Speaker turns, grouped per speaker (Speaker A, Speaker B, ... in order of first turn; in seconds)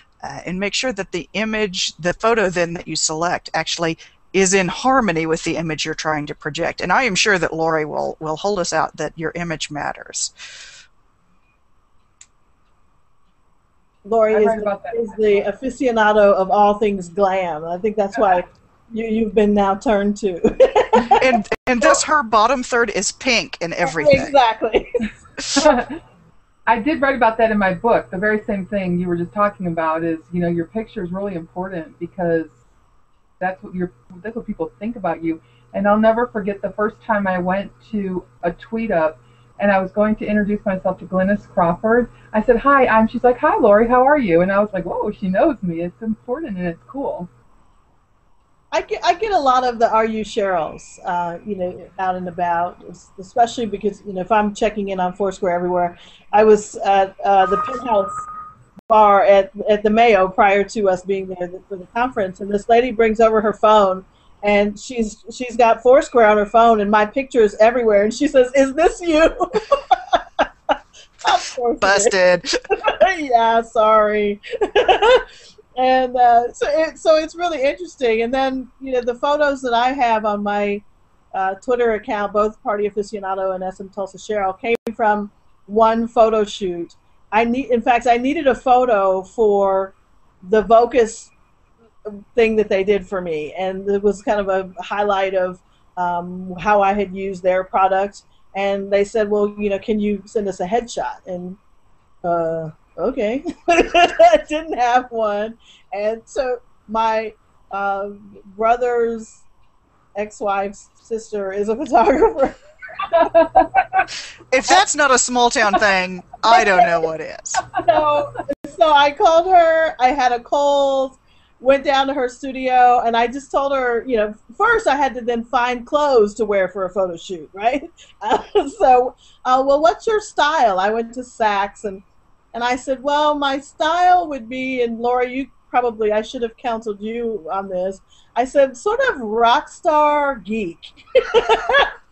Speaker A: 0.2-10.3, 21.1-24.3, 71.8-72.5, 114.5-117.6
Speaker B: 14.0-21.2, 23.8-25.1, 48.7-58.3, 58.9-70.7, 71.2-72.2, 72.7-75.3, 75.8-91.3, 92.1-101.6, 102.2-109.4, 110.2-113.8, 117.8-141.9
Speaker C: 14.3-15.5, 18.1-18.4, 25.6-26.0, 26.7-32.5, 33.4-47.3, 113.2-113.7